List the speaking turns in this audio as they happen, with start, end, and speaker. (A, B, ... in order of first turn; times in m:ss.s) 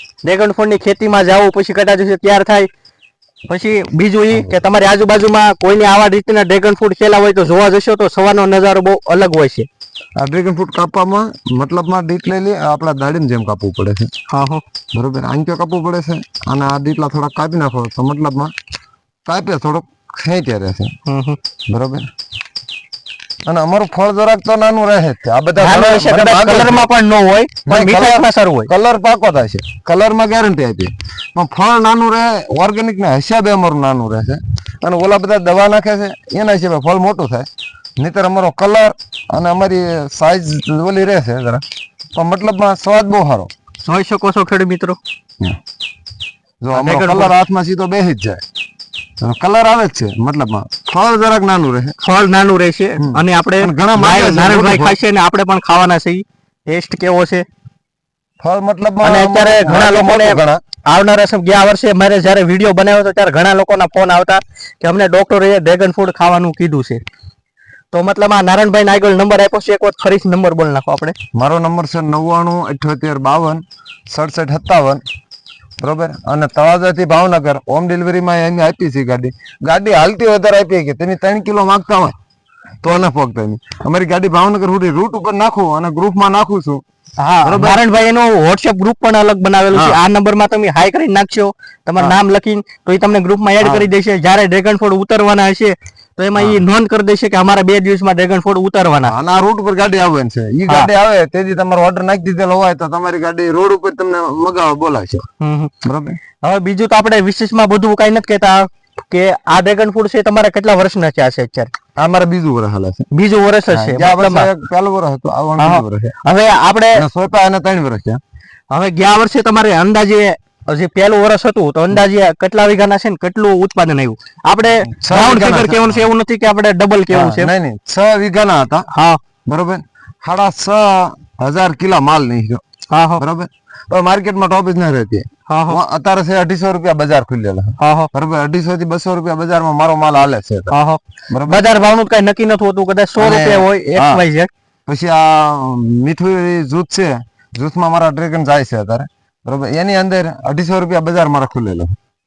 0:00.2-0:02.7 A
0:03.5-0:09.7 A
0:10.2-0:14.1 B
0:14.3-0:14.6 A
0:14.9-0:18.5 B
0:19.2-0:20.9 B
0:21.0-0:21.4 A
0:21.7-0:22.0 B
0:23.4-0:26.9 B
0:25.6-0:28.7 A
0:27.7-0:37.5 B
0:38.0-0:41.6 B
0:42.1-0:43.5 B
0:43.8-0:45.0 A
0:46.6-0:48.4 B
0:46.7-0:47.3 A
0:49.2-0:52.0 B
0:52.0-0:57.4 A
0:53.0-0:55.0 B
0:58.4-1:00.6 B
0:59.0-1:07.0 A
1:07.9-1:11.1 A
1:11.3-1:15.0 B
1:15.8-1:22.1 B
1:22.8-1:26.8 B
1:27.2-1:39.1 A
1:27.4-1:27.8 B
1:29.7-1:30.0 B
1:33.6-1:33.9 B
1:36.4-1:36.6 B
1:39.0-1:45.2 B
1:45.4-1:45.7 A
1:45.8-1:46.2 B
1:46.4-1:51.7 A
1:52.0-1:53.0 B
1:53.1-1:54.5 A
1:53.7-1:56.1 B
1:55.6-1:57.0 A
1:56.9-1:58.2 B
1:58.7-2:07.5 A
2:04.9-2:06.0 B
2:07.1-2:08.9 B
2:08.9-2:09.2 A
2:09.4-2:12.6 B
2:12.9-2:13.2 A
2:13.2-2:20.7 B
2:15.5-2:15.8 A
2:17.8-2:18.1 A
2:20.7-2:24.5 A
2:21.3-2:21.6 B
2:23.2-2:24.2 B
2:24.9-2:31.9 B